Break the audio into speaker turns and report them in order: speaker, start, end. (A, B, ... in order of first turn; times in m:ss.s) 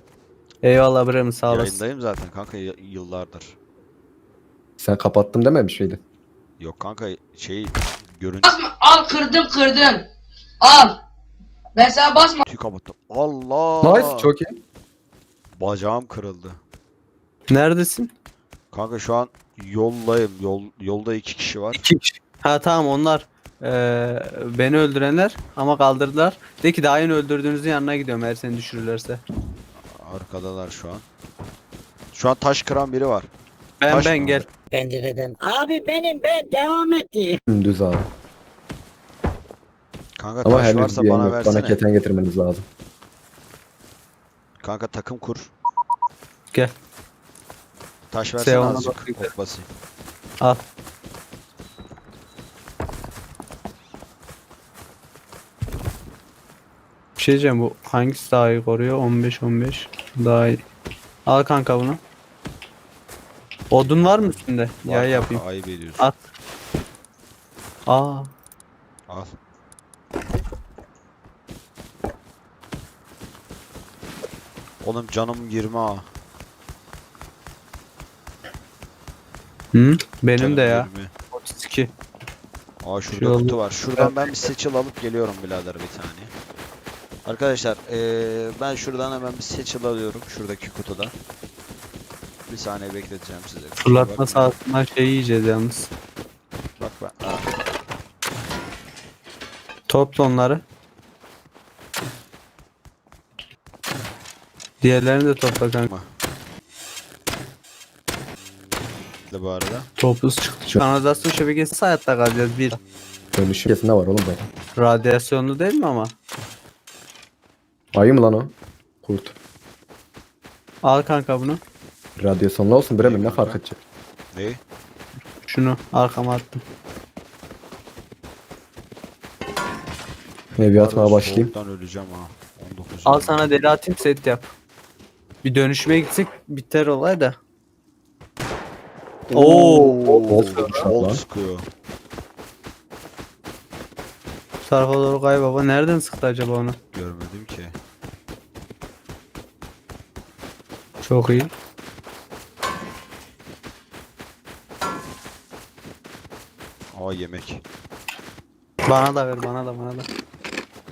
0:00.6-0:01.8 A
0:01.4-0:03.5 B
0:04.8-0:06.0 C
0:06.6-0:08.5 B
0:08.4-0:10.0 D
0:10.6-0:11.0 D
0:11.8-0:12.4 D
0:12.4-0:14.3 B
0:13.8-0:14.5 C
0:15.5-0:16.6 B
0:17.5-0:18.1 A
0:18.7-0:21.8 B
0:21.8-0:29.2 A
0:30.0-0:31.0 B
0:32.1-0:33.3 B
0:33.8-0:34.4 A
0:33.9-0:34.4 B
0:34.7-0:37.4 E
0:37.5-0:38.1 C
0:40.2-0:41.8 B
0:40.4-0:42.6 C
0:44.6-0:45.5 B
0:48.1-0:49.7 B
0:48.4-0:49.3 A
0:57.2-1:00.6 A
1:01.2-1:02.0 A
1:03.7-1:05.4 A
1:03.7-1:06.1 B
1:07.9-1:08.3 A
1:14.8-1:16.1 B
1:19.7-1:21.9 A
1:20.4-1:21.1 B
1:22.8-1:26.3 B
1:23.1-1:24.4 A
1:27.2-1:31.1 B
1:32.5-1:34.5 B
1:33.8-1:35.9 A
1:36.8-1:37.4 B
1:39.9-1:40.6 A
1:44.8-1:45.9 A
1:49.3-1:49.9 B
1:50.0-1:52.8 A
1:53.4-1:54.4 C
1:54.8-1:56.1 A
1:57.9-1:59.3 C
2:00.8-2:01.6 A
2:02.2-2:03.8 C
2:03.0-2:03.6 B
2:04.3-2:04.6 B
2:05.4-2:06.6 A
2:10.6-2:11.5 C
2:10.8-2:13.5 B
2:13.1-2:14.5 A
2:15.4-2:17.4 A
2:19.3-2:21.7 B
2:19.3-2:20.8 A
2:20.3-2:21.2 C
2:24.6-2:26.8 A
2:26.9-2:27.8 B
2:31.0-2:31.5 A
2:36.9-2:37.6 B
2:38.9-2:40.1 A